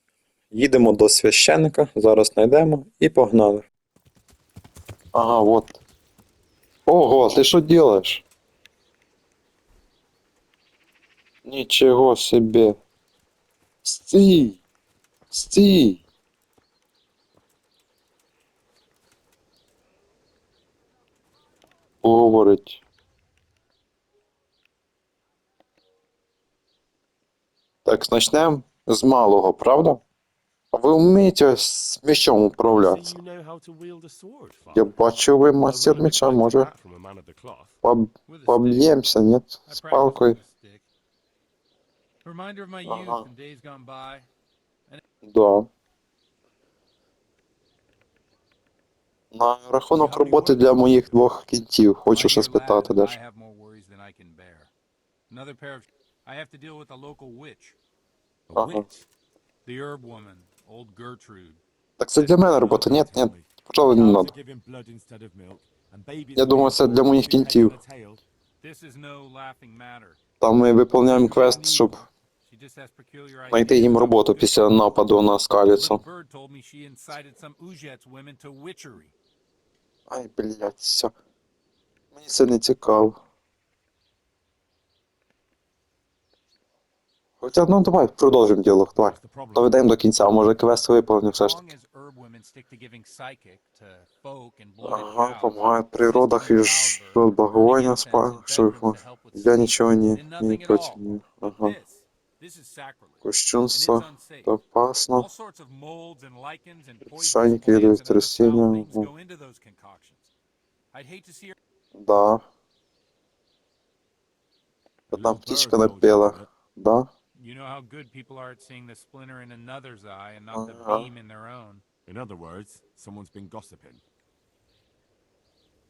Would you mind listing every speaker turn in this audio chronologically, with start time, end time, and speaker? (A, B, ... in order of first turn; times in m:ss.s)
0:00.5-0:03.6 A
0:05.1-0:05.8 A
0:06.9-0:08.2 A
0:11.4-0:12.8 A
0:13.8-0:14.6 A
0:15.3-0:16.0 A
0:22.0-0:22.8 A
0:27.8-0:30.0 A
0:30.7-0:33.2 A
0:32.7-0:34.9 B
0:34.7-0:36.7 A
0:35.6-0:37.8 B
0:37.8-0:40.4 A
0:38.3-0:38.9 C
0:39.7-0:40.9 C
0:42.2-0:44.3 C
0:42.9-0:43.2 A
0:45.2-0:45.7 A
0:49.3-0:53.2 A
0:49.9-0:51.1 B
0:50.3-0:50.7 C
0:52.1-0:54.7 C
0:55.3-0:57.8 C
0:58.5-0:59.0 B
0:58.6-0:58.8 A
0:59.6-1:01.6 C
1:02.0-1:04.3 A
1:02.3-1:08.2 B
1:06.4-1:07.8 A
1:08.6-1:10.2 C
1:10.4-1:12.0 A
1:11.1-1:14.9 C
1:13.5-1:16.0 A
1:15.7-1:19.1 C
1:20.1-1:21.1 A
1:22.1-1:23.2 A
1:27.4-1:31.6 A
1:29.0-1:29.8 B
1:31.3-1:44.6 C
1:34.8-1:41.7 A
1:43.2-1:45.3 A
1:45.1-1:50.3 C
1:47.1-1:49.1 A
1:50.9-1:51.5 C
1:51.9-1:52.4 A
1:55.1-1:56.5 B
1:55.1-1:57.1 A
1:57.3-2:01.8 C
2:00.5-2:01.1 A
2:02.0-2:04.0 B